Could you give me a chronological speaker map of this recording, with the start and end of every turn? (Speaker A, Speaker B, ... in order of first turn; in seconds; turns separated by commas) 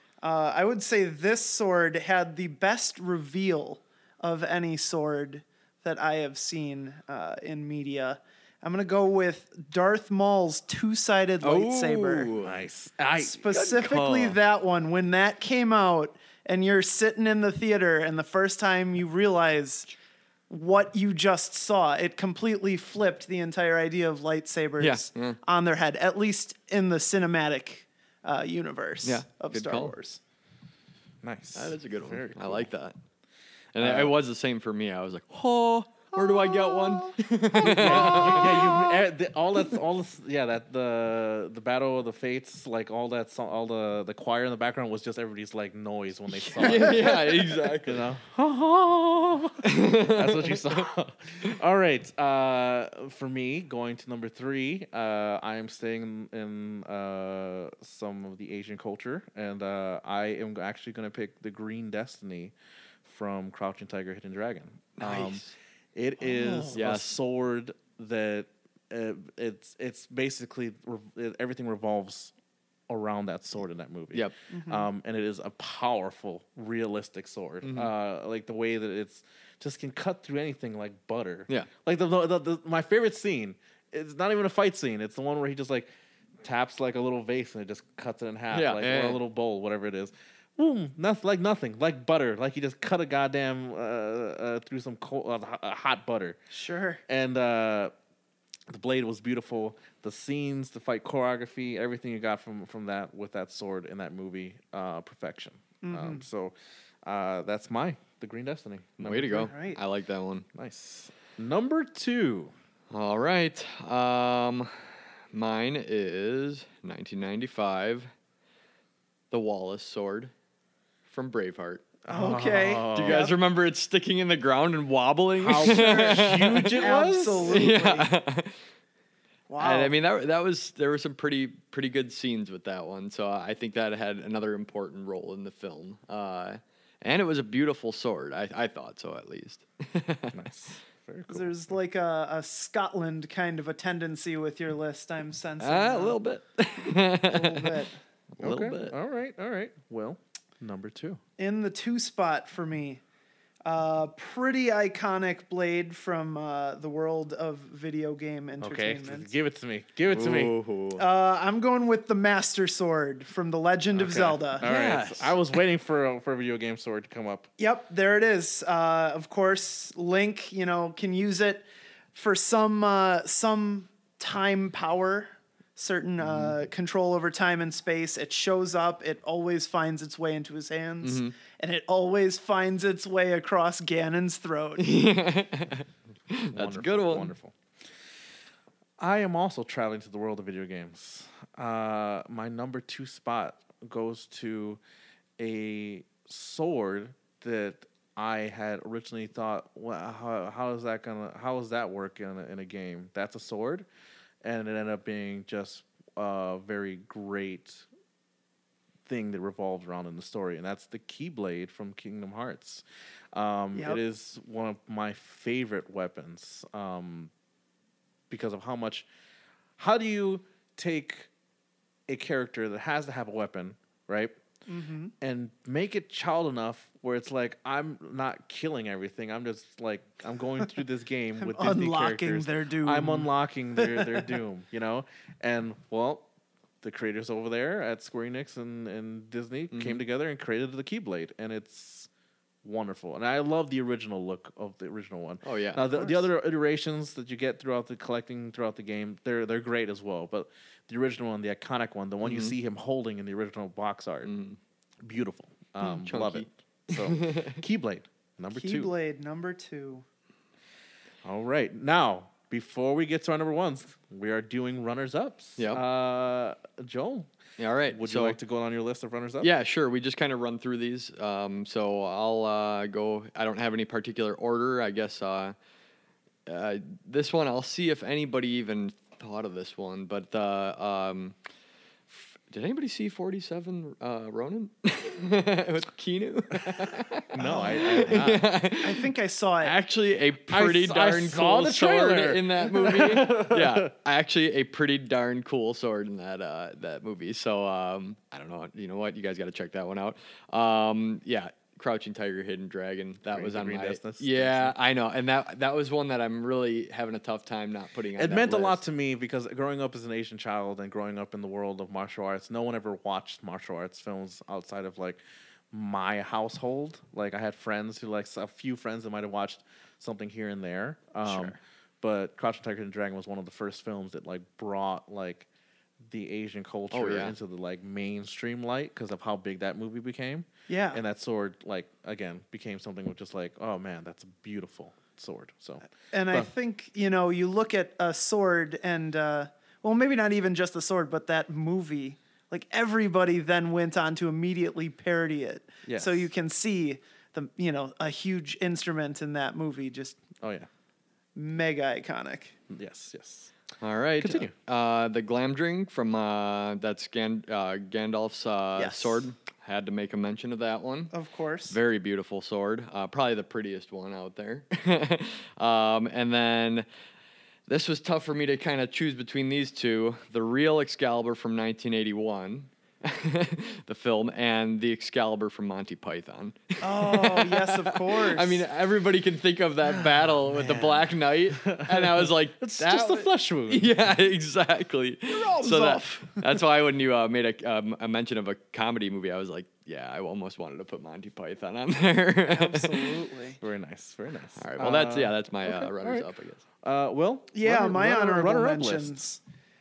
Speaker A: 0.2-12.3, Speaker B: 11.4-12.6, Speaker C: 12.4-13.5, Speaker A: 13.2-19.9, Speaker B: 13.5-14.4, Speaker A: 20.5-30.2, Speaker B: 24.8-25.4, Speaker B: 29.0-29.9, Speaker C: 31.2-32.7, Speaker B: 31.5-33.0, Speaker B: 33.7-38.7, Speaker C: 33.8-34.1, Speaker A: 36.1-38.9, Speaker C: 37.6-47.2, Speaker B: 46.4-48.0, Speaker A: 46.6-47.3, Speaker C: 47.8-62.5, Speaker B: 49.6-50.6, Speaker C: 63.0-65.4, Speaker B: 65.0-65.5, Speaker C: 65.9-72.3, Speaker A: 66.2-66.8, Speaker B: 66.7-67.2, Speaker C: 72.9-85.9, Speaker A: 74.5-74.9, Speaker B: 77.6-77.9, Speaker C: 86.4-96.4, Speaker B: 88.5-89.2, Speaker A: 96.5-97.0, Speaker C: 97.1-97.9, Speaker C: 98.7-109.5, Speaker A: 105.8-106.2, Speaker B: 109.0-110.4, Speaker A: 109.3-109.8, Speaker C: 110.5-112.5, Speaker B: 112.9-118.1, Speaker B: 119.3-120.3, Speaker B: 121.1-121.8, Speaker C: 122.0-123.2, Speaker A: 122.1-123.3, Speaker B: 122.9-126.8, Speaker C: 125.4-127.7, Speaker A: 125.7-128.1, Speaker B: 127.4-128.6, Speaker A: 129.5-129.9, Speaker B: 129.6-140.3, Speaker C: 140.3-141.7, Speaker A: 141.3-146.2, Speaker B: 145.6-147.8, Speaker A: 147.2-148.0, Speaker B: 148.3-148.9, Speaker C: 148.4-151.2, Speaker A: 151.4-153.0, Speaker A: 153.6-159.3, Speaker C: 158.6-160.5, Speaker B: 160.1-161.0, Speaker A: 161.0-164.6, Speaker C: 163.9-167.5, Speaker B: 164.6-165.4, Speaker A: 167.6-185.0, Speaker B: 176.2-176.5, Speaker B: 181.0-181.3, Speaker B: 184.8-187.3, Speaker C: 186.5-187.5, Speaker C: 189.0-194.8, Speaker C: 195.4-203.8, Speaker C: 204.4-207.8, Speaker C: 209.1-217.3, Speaker A: 213.7-214.0, Speaker C: 218.3-219.1, Speaker C: 219.8-221.3, Speaker C: 222.1-224.3, Speaker A: 224.7-225.1, Speaker C: 225.2-236.2, Speaker A: 231.4-234.4, Speaker C: 236.8-242.1, Speaker B: 239.7-240.0, Speaker C: 242.6-254.3, Speaker B: 245.4-245.8, Speaker A: 245.9-246.2, Speaker B: 252.2-252.5, Speaker B: 254.2-254.6, Speaker C: 255.0-258.9, Speaker B: 255.8-257.6, Speaker A: 258.5-260.0, Speaker C: 261.2-267.3, Speaker B: 267.6-268.4, Speaker C: 267.9-269.5, Speaker B: 269.4-275.6, Speaker B: 276.4-281.4, Speaker B: 282.1-289.1, Speaker C: 287.3-288.5, Speaker A: 287.4-288.2, Speaker A: 288.8-289.8, Speaker B: 289.6-308.8, Speaker C: 290.5-293.9, Speaker C: 303.3-304.7, Speaker C: 308.2-315.2, Speaker C: 315.7-325.5, Speaker A: 321.2-321.6, Speaker C: 326.1-336.5, Speaker B: 326.9-327.3, Speaker A: 330.7-331.0, Speaker A: 336.1-350.2, Speaker C: 345.8-346.3, Speaker C: 350.4-350.7, Speaker A: 351.4-352.5, Speaker C: 352.7-353.5, Speaker B: 353.8-361.1, Speaker C: 354.2-354.5, Speaker A: 358.8-359.2, Speaker A: 361.1-361.8, Speaker B: 361.7-366.9, Speaker B: 367.7-393.2, Speaker A: 376.8-378.6, Speaker C: 379.9-383.9, Speaker A: 385.3-386.6, Speaker A: 392.4-393.6, Speaker C: 393.6-396.3, Speaker B: 394.6-396.6, Speaker C: 396.8-399.2, Speaker A: 397.5-399.4